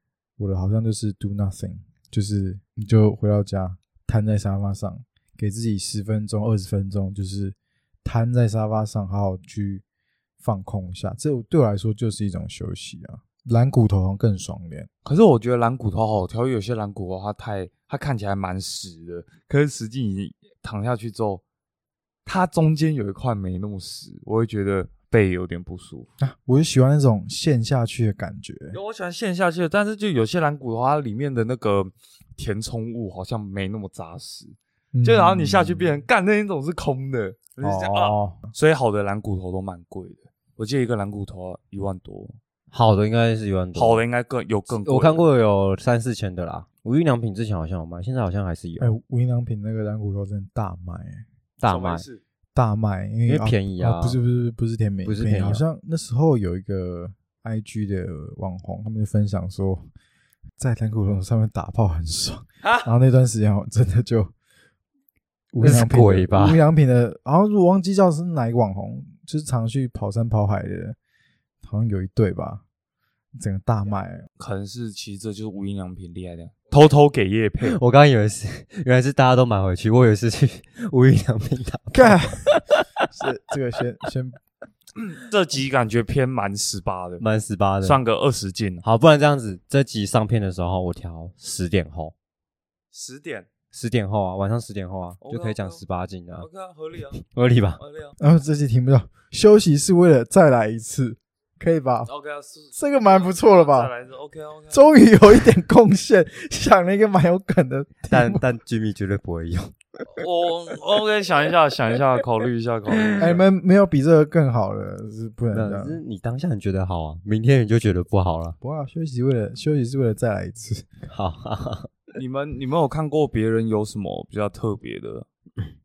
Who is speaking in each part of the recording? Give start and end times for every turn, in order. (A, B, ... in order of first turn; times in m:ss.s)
0:00.4-0:09.8 A
0:10.4-0:14.9 A
0:15.0-0:21.4 B
0:22.2-0:26.1 B
0:26.2-0:28.8 A
0:28.7-0:42.4 B
0:34.9-0:35.9 A
0:37.6-0:38.5 A
0:42.7-0:44.0 C
0:43.7-0:45.3 B
0:44.7-0:48.9 C
0:48.8-0:51.2 A
0:51.6-0:52.0 C
0:51.6-0:52.2 B
0:52.5-0:59.8 A
0:53.3-0:54.2 C
0:55.0-0:55.6 C
1:00.6-1:04.3 A
1:05.5-1:11.0 A
1:05.6-1:06.6 C
1:11.6-1:12.6 A
1:13.4-1:14.3 A
1:14.4-1:17.8 B
1:17.6-1:23.0 C
1:21.9-1:22.6 A
1:23.1-1:24.4 A
1:25.0-1:27.2 B
1:27.2-1:28.0 C
1:27.8-1:28.8 B
1:28.8-1:32.1 C
1:32.9-1:33.5 B
1:33.7-1:36.5 C
1:35.2-1:35.8 B
1:36.4-1:37.2 B
1:37.2-1:37.8 C
1:37.8-1:38.1 B
1:38.2-1:42.1 A
1:42.0-1:44.8 B
1:42.8-1:43.9 A
1:44.7-1:48.4 A
1:48.1-1:49.7 C
1:50.1-1:53.4 B
1:53.2-1:56.0 A
1:55.5-1:58.6 C
1:58.6-2:00.9 A
2:01.1-2:01.9 C
2:02.1-2:05.3 B